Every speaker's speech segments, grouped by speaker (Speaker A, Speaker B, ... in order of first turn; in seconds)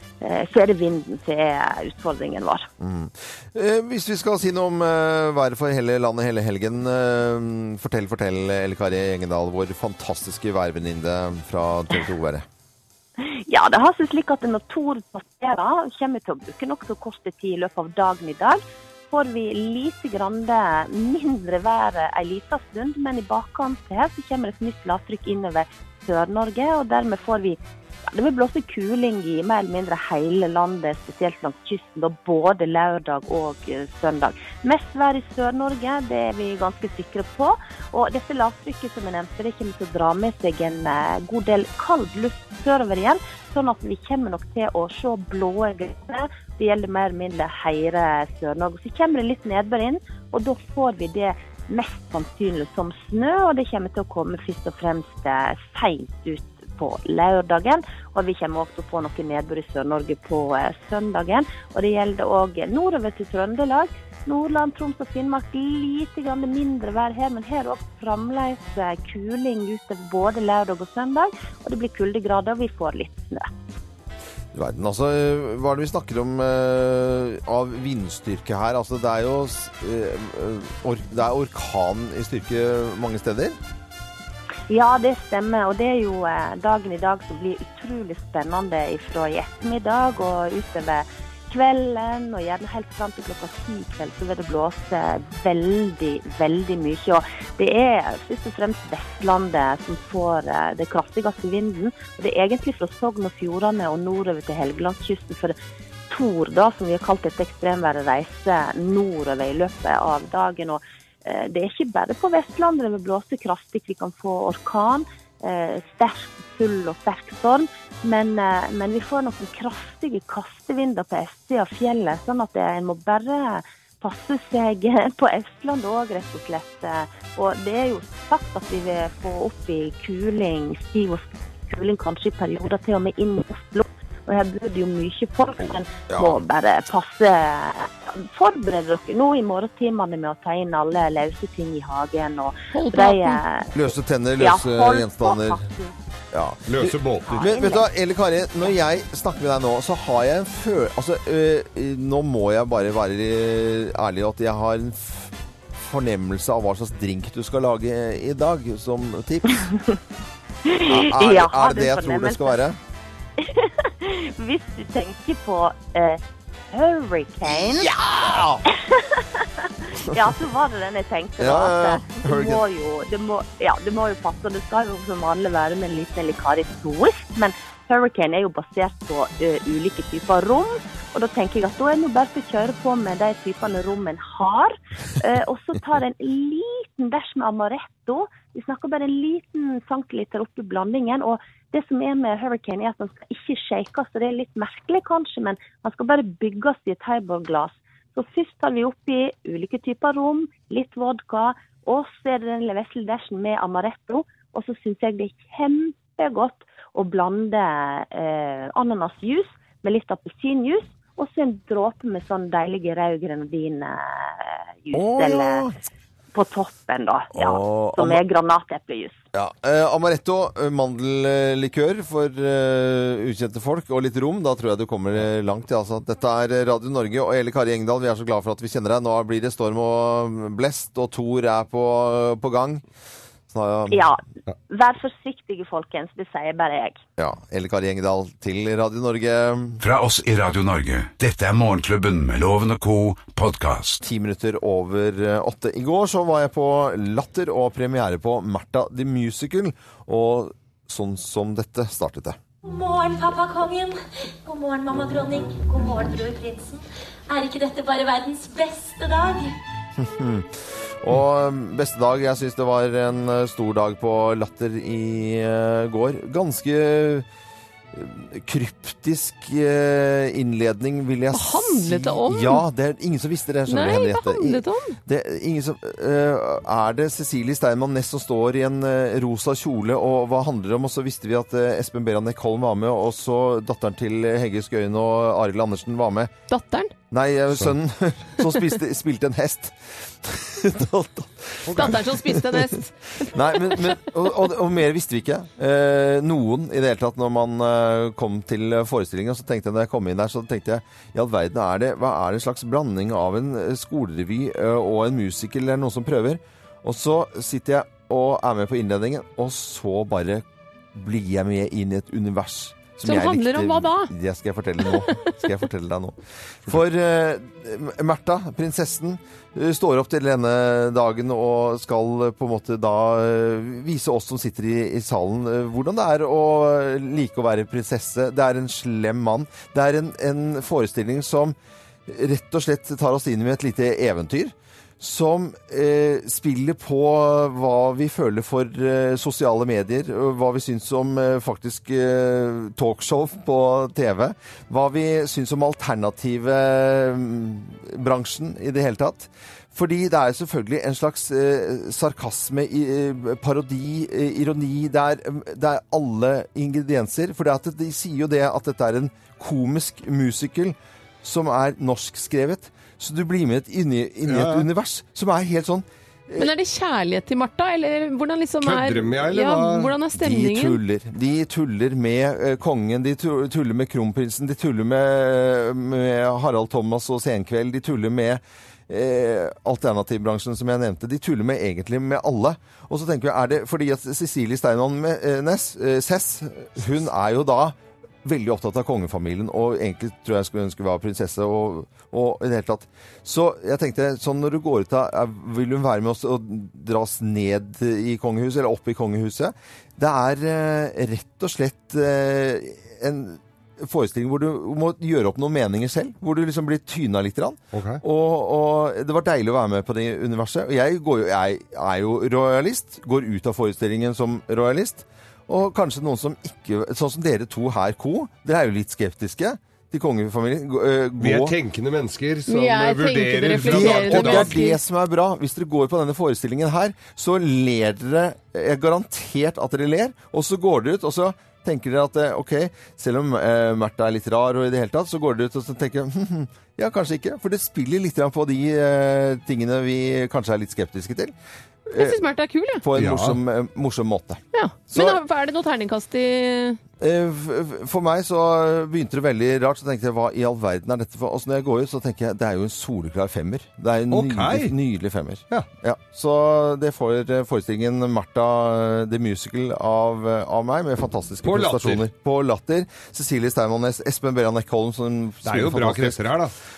Speaker A: 0.2-2.7, 13.2-18.6, 19.1-27.6, 28.1-73.5, 84.7-105.5, 106.1-143.7, 144.4-145.9, 147.2-147.9, 160.7-162.6, 163.4-166.2, 166.7-167.9, 168.7-215.7, 216.3-219.2, 233.9-237.0
Speaker B: 2.8-12.4, 74.5-83.6, 136.1-136.4, 143.7-145.6, 146.3-159.7, 160.9-162.8, 167.4-168.6, 171.4-172.6, 214.9-215.8, 217.3-218.2, 219.3-232.8, 233.5-234.1, 237.2-239.8, 244.0-252.4, 259.9-267.3, 267.9-286.3, 287.1-331.6, 332.1-366.5, 370.1-421.6, 423.6-441.3, 441.9-442.2, 442.8-445.2, 447.0-466.2
Speaker C: 142.7-143.4, 271.3-272.6, 273.7-275.0, 286.5-286.9, 291.7-294.0, 313.0-314.1, 366.4-370.8, 422.5-424.8, 441.9-442.8, 444.5-446.8
Speaker D: 146.7-147.4, 291.6-292.0, 364.3-364.7, 368.6-369.9, 407.7-408.0, 421.2-424.6, 442.9-443.4, 454.1-454.7, 461.4-462.0, 465.4-466.5
Speaker E: 239.8-244.0
Speaker F: 252.6-259.5